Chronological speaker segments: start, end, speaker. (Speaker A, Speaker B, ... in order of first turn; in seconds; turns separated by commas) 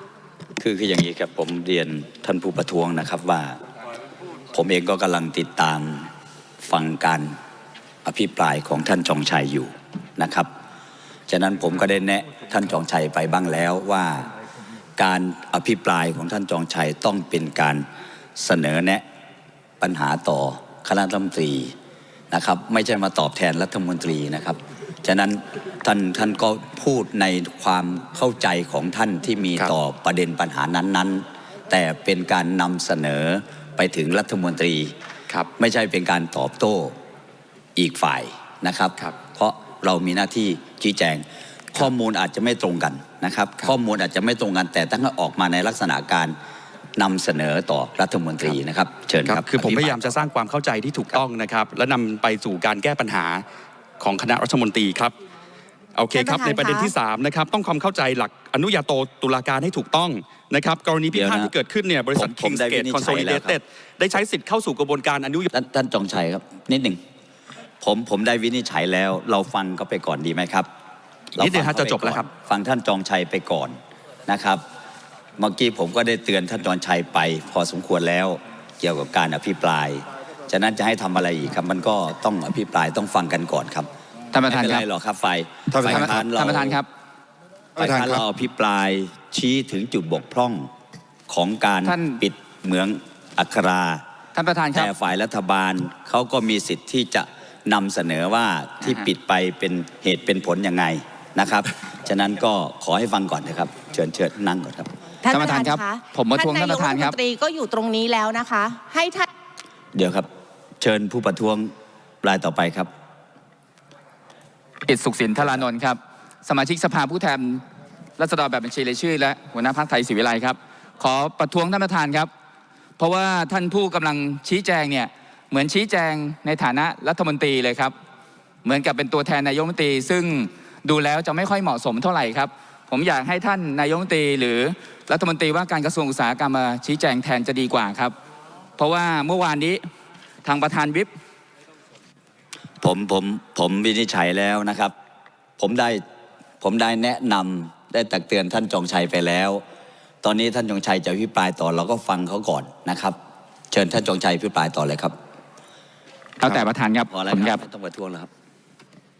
Speaker A: 0.6-3.6, Speaker A: 4.5-6.1, Speaker A: 6.6-7.4, Speaker A: 8.1-10.5, Speaker A: 11.3-14.3, Speaker A: 15.0-17.9, Speaker A: 18.4-19.1, Speaker A: 19.8-21.7, Speaker A: 22.3-34.9, Speaker A: 35.6-37.0, Speaker A: 37.8-46.4, Speaker A: 47.0-50.0, Speaker B: 49.3-53.4, Speaker B: 54.0-55.1, Speaker B: 56.0-65.5, Speaker C: 56.1-56.9, Speaker A: 61.1-61.5, Speaker A: 62.2-63.6, Speaker A: 65.5-67.0, Speaker A: 67.8-70.7, Speaker A: 71.3-74.6, Speaker B: 71.4-72.3, Speaker A: 75.4-83.9, Speaker D: 84.3-84.8, Speaker A: 84.5-86.8, Speaker D: 85.8-86.9, Speaker A: 87.8-90.7, Speaker A: 91.3-94.0, Speaker D: 91.8-92.2, Speaker D: 94.3-94.9, Speaker A: 94.7-104.9, Speaker C: 105.2-109.3, Speaker D: 105.3-107.2, Speaker A: 110.0-110.3, Speaker A: 110.8-112.9, Speaker D: 114.8-117.6, Speaker D: 118.2-122.3, Speaker D: 123.0-128.0, Speaker D: 128.6-138.2, Speaker D: 138.8-139.9, Speaker D: 140.4-141.1, Speaker A: 142.8-144.9, Speaker A: 145.6-146.0, Speaker A: 146.6-149.6, Speaker A: 150.2-153.2, Speaker A: 153.7-155.2, Speaker D: 156.4-157.6, Speaker A: 156.4-158.3